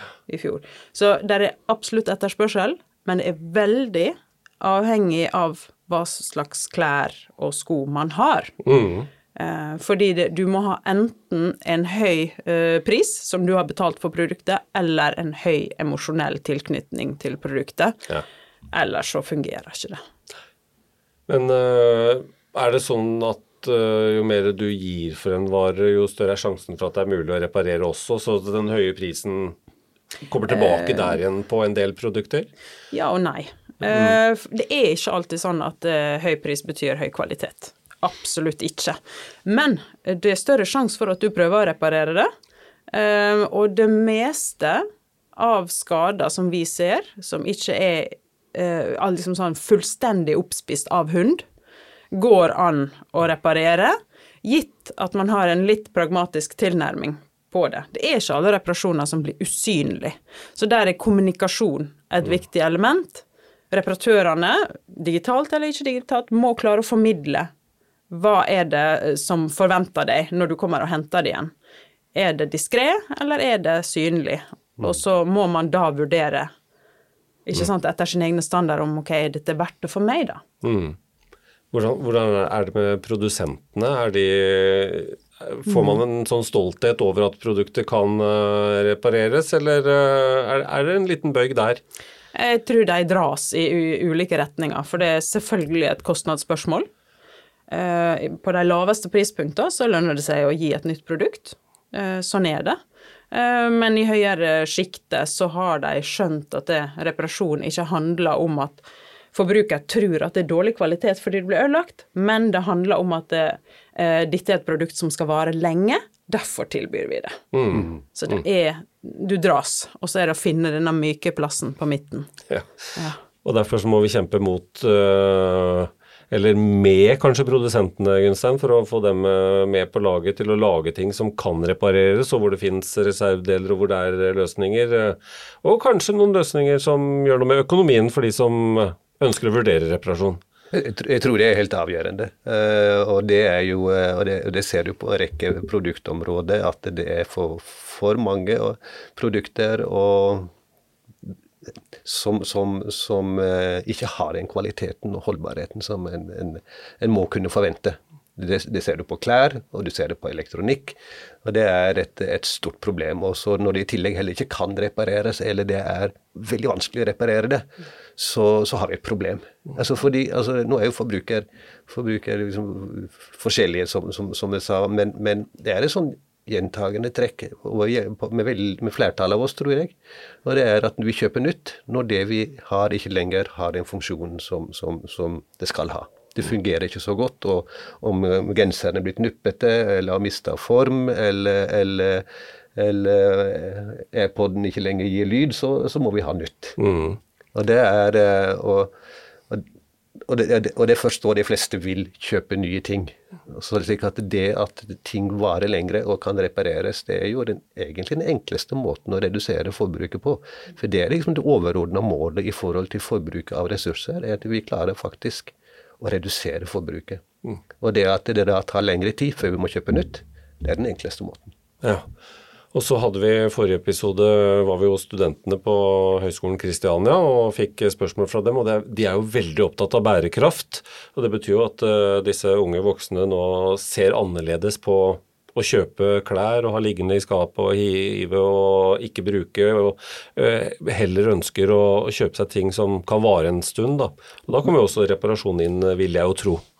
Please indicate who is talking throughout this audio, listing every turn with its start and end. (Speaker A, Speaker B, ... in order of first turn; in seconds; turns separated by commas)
Speaker A: 0.3-8.6, Speaker B: 8.7-9.1, Speaker A: 9.3-18.0, Speaker A: 18.7-20.0, Speaker B: 21.3-29.6, Speaker B: 30.3-32.5, Speaker A: 30.5-31.1, Speaker A: 32.9-42.3, Speaker A: 42.9-51.5, Speaker A: 52.1-67.5, Speaker A: 68.1-71.5, Speaker A: 72.1-76.5, Speaker A: 77.5-80.4, Speaker B: 80.6-81.0, Speaker B: 81.7-91.8, Speaker A: 92.3-96.9, Speaker A: 97.7-102.8, Speaker A: 103.3-117.4, Speaker B: 117.5-117.9, Speaker A: 118.1-122.3, Speaker B: 123.4-140.4, Speaker C: 140.7-150.5, Speaker C: 152.0-196.8, Speaker B: 196.8-197.2, Speaker C: 197.5-198.9, Speaker C: 200.2-217.2, Speaker C: 217.8-221.6, Speaker B: 222.7-246.6